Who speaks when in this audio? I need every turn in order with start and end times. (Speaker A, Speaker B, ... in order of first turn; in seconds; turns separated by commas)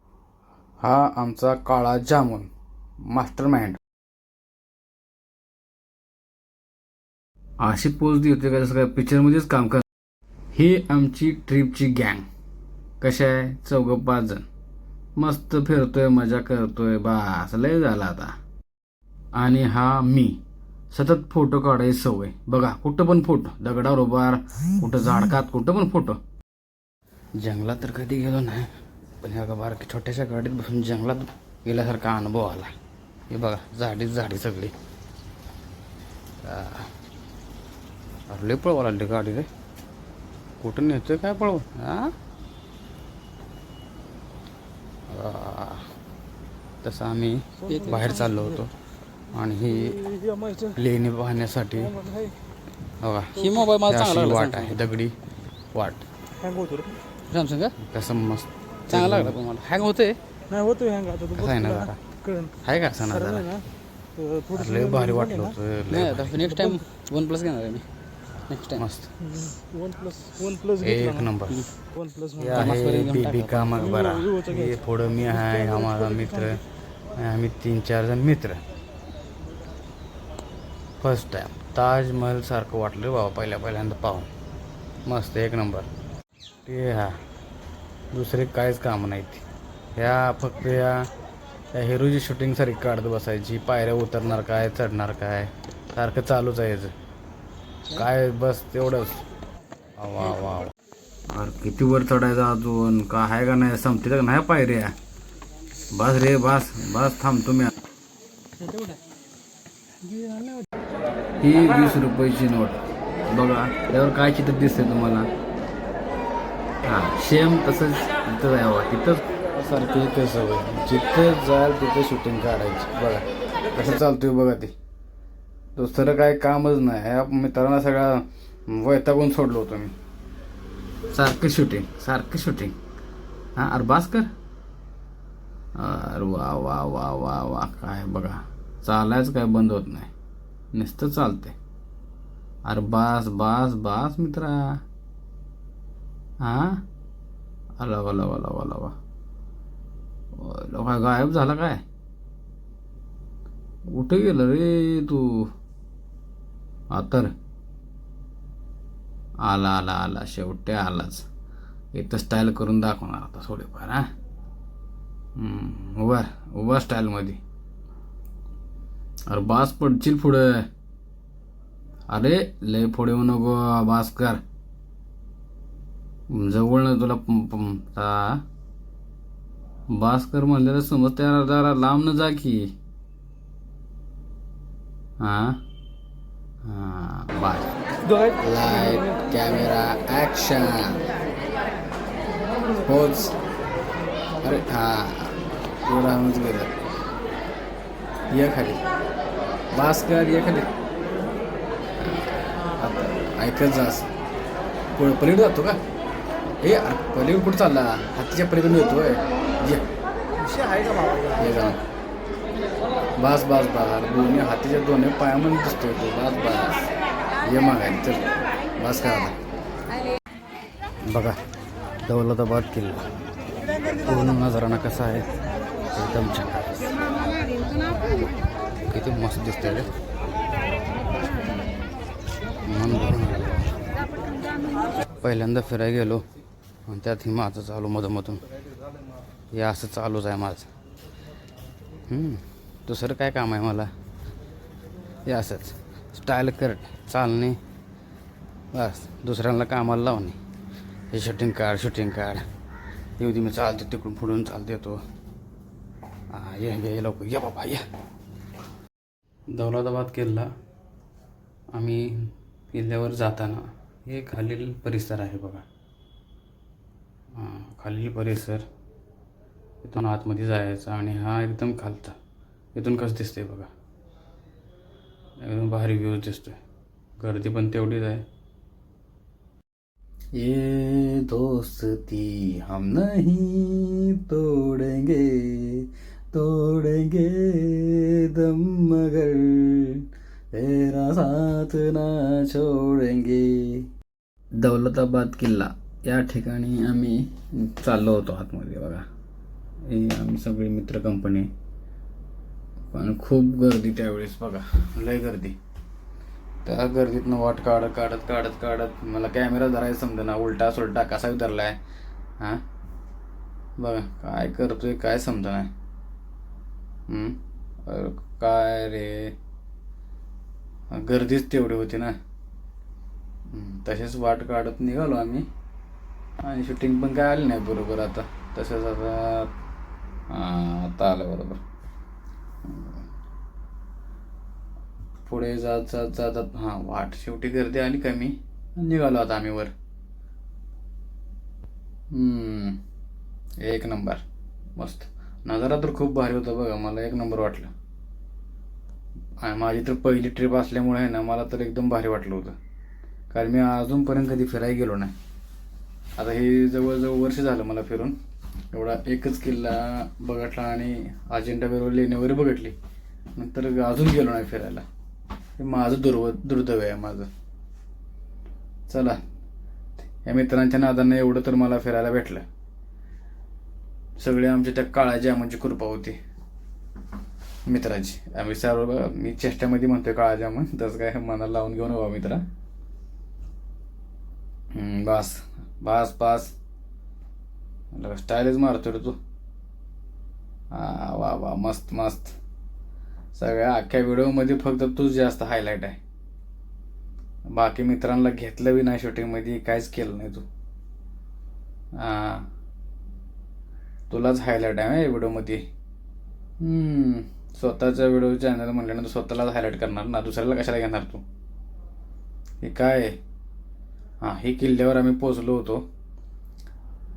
Speaker A: 0.8-2.5, Speaker A: 3.0-3.8, Speaker A: 7.6-9.8, Speaker A: 10.5-12.2, Speaker A: 13.0-14.4, Speaker A: 15.2-18.3, Speaker A: 19.3-20.4, Speaker A: 20.9-26.2, Speaker A: 27.4-32.7, Speaker A: 33.3-34.7, Speaker A: 36.4-36.9, Speaker A: 38.3-39.5, Speaker A: 40.6-42.1, Speaker A: 45.1-45.9, Speaker A: 46.8-48.7, Speaker B: 47.7-48.4, Speaker C: 47.7-48.3, Speaker A: 49.3-50.0, Speaker B: 49.8-50.7, Speaker A: 50.7-52.0, Speaker B: 51.9-52.4, Speaker A: 53.0-55.1, Speaker C: 53.4-54.8, Speaker A: 55.7-56.0, Speaker B: 56.4-57.0, Speaker C: 57.3-57.8, Speaker A: 57.8-59.4, Speaker C: 58.9-60.2, Speaker B: 60.5-62.5, Speaker A: 61.3-62.0, Speaker A: 62.6-63.5, Speaker B: 63.1-63.6, Speaker B: 64.2-65.5, Speaker A: 64.5-66.4, Speaker C: 65.9-67.8, Speaker B: 66.4-66.8, Speaker C: 68.5-68.8, Speaker A: 68.7-69.1, Speaker B: 69.3-71.3, Speaker A: 70.8-71.6, Speaker B: 71.9-72.7, Speaker A: 72.4-76.6, Speaker C: 72.5-74.0, Speaker B: 73.8-74.7, Speaker B: 75.3-76.5, Speaker A: 77.1-78.6, Speaker A: 81.0-84.3, Speaker A: 85.0-85.9, Speaker A: 86.7-87.2, Speaker A: 88.1-89.4, Speaker A: 89.9-91.1, Speaker A: 91.7-96.9, Speaker A: 97.9-99.2, Speaker A: 100.0-100.7, Speaker A: 101.3-104.9, Speaker A: 105.9-107.7, Speaker B: 110.1-110.5, Speaker A: 111.4-115.3, Speaker A: 116.8-124.7, Speaker A: 125.8-129.9, Speaker A: 131.1-132.7, Speaker A: 133.6-134.3, Speaker A: 135.8-140.1, Speaker A: 140.7-141.6, Speaker A: 142.6-144.8, Speaker A: 146.4-146.8, Speaker A: 147.8-148.9, Speaker A: 150.3-151.8, Speaker A: 153.9-155.5, Speaker A: 156.9-157.3, Speaker A: 159.4-161.3, Speaker A: 161.9-164.1, Speaker A: 165.3-167.4, Speaker A: 169.3-170.7, Speaker A: 172.1-174.4, Speaker A: 176.3-178.4, Speaker A: 179.9-182.7, Speaker A: 185.2-185.6, Speaker A: 186.6-187.7, Speaker A: 188.4-191.0, Speaker A: 192.8-193.3, Speaker A: 194.4-196.7, Speaker A: 198.3-198.8, Speaker A: 199.7-200.7, Speaker A: 202.0-204.1, Speaker A: 204.9-205.8, Speaker A: 206.6-209.9, Speaker A: 211.3-211.8, Speaker A: 213.2-216.9, Speaker A: 217.4-218.2, Speaker A: 218.8-219.4, Speaker A: 221.1-221.4, Speaker A: 222.0-223.1, Speaker A: 224.0-225.3, Speaker A: 225.9-226.9, Speaker A: 228.9-229.9, Speaker A: 232.7-233.7, Speaker A: 235.2-236.2, Speaker A: 236.9-238.4, Speaker A: 239.5-240.7, Speaker A: 242.1-243.9, Speaker A: 245.2-247.6, Speaker A: 248.7-250.4, Speaker A: 251.1-252.4, Speaker A: 253.2-255.0, Speaker A: 256.3-257.8, Speaker A: 259.5-260.5, Speaker A: 261.7-265.6, Speaker A: 267.3-268.6, Speaker A: 269.8-272.1, Speaker A: 272.7-273.7, Speaker A: 275.4-276.6, Speaker A: 277.2-278.2, Speaker A: 280.4-293.9, Speaker A: 294.6-299.0, Speaker A: 299.9-301.5, Speaker A: 302.9-305.6, Speaker A: 306.6-311.8, Speaker A: 313.8-315.7, Speaker A: 317.1-319.3, Speaker A: 320.9-322.1, Speaker A: 323.5-325.4, Speaker A: 326.4-329.5, Speaker A: 330.3-331.6, Speaker A: 332.6-333.0, Speaker A: 335.2-339.7, Speaker A: 342.1-342.8, Speaker A: 343.6-344.2, Speaker A: 344.8-347.7, Speaker A: 349.4-352.5, Speaker A: 353.3-355.1, Speaker A: 356.2-358.1, Speaker A: 358.7-362.7, Speaker A: 363.3-364.8, Speaker A: 365.6-367.3, Speaker A: 368.9-369.2, Speaker A: 370.2-372.4, Speaker A: 374.2-376.2, Speaker A: 377.6-382.4, Speaker A: 384.7-386.5, Speaker A: 387.9-389.2, Speaker A: 390.7-392.4, Speaker A: 393.3-396.0, Speaker A: 397.5-400.4, Speaker A: 401.9-402.5, Speaker A: 404.1-405.6, Speaker A: 406.6-411.2, Speaker A: 412.6-413.2, Speaker A: 414.2-415.8